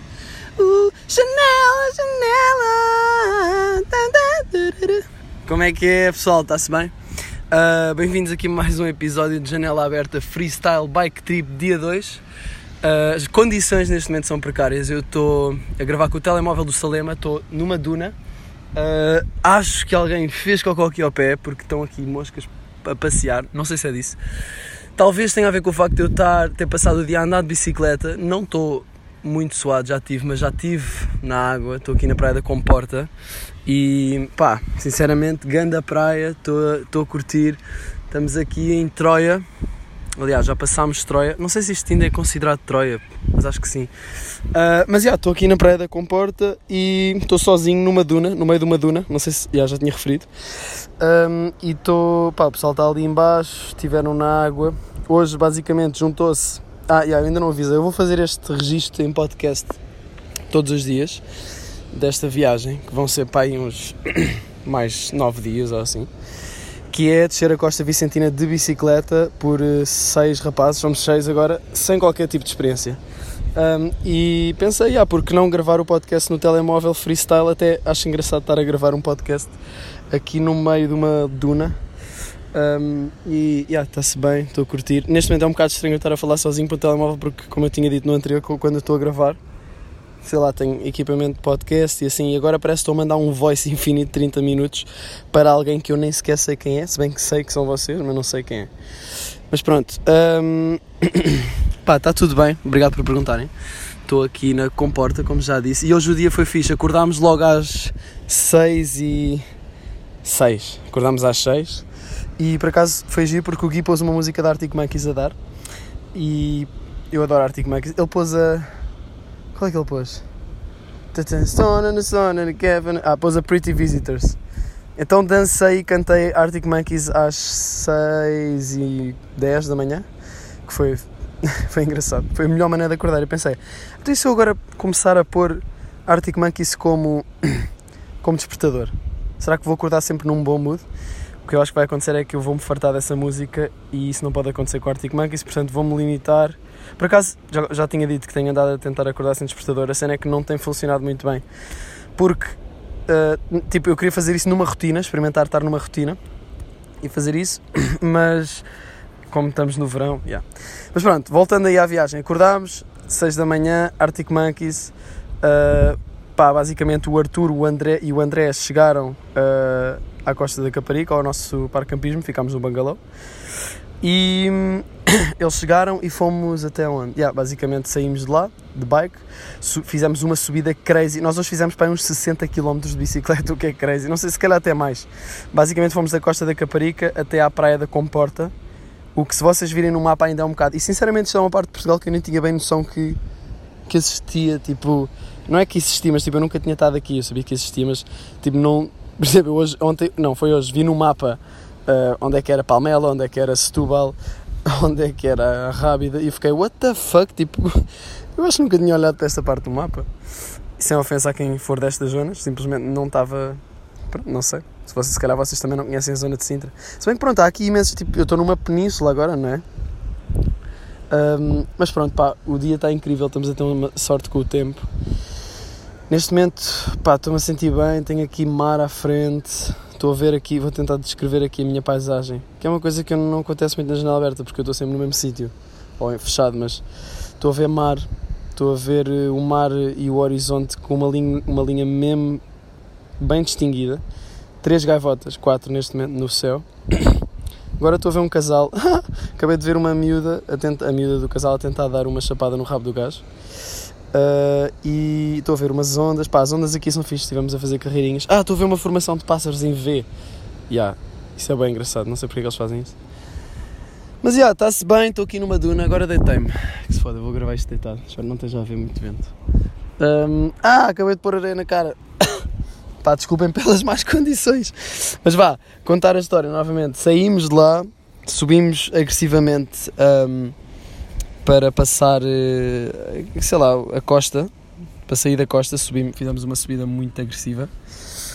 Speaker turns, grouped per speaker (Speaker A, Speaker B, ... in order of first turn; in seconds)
Speaker A: 0.6-6.9, 7.5-12.2, 12.8-18.1, 18.8-24.2, 25.0-33.1, 33.7-39.5, 40.2-43.9, 44.5-59.8, 60.5-61.2, 61.9-66.1, 66.9-73.0, 73.5-79.5, 80.1-81.8, 82.5-89.4, 90.2-98.7, 99.5-103.5, 104.1-109.5, 110.2-111.9, 112.4-115.4, 116.1-118.7, 119.5-120.2, 121.1-124.4, 125.0-130.1, 130.7-137.7, 138.2-140.9, 141.4-151.4, 152.2-152.6, 153.1-156.2, 157.0-158.7, 159.3-173.0, 174.0-188.5, 189.2-193.2, 193.9-210.1, 210.8-219.6, 221.1-224.9, 226.1-236.8, 237.4-242.4, 243.2-244.0, 244.6-247.2, 247.8-253.2, 254.1-260.1, 260.7-262.9, 264.2-269.3, 270.0-272.4, 273.0-280.6, 281.4-284.5, 285.1-287.7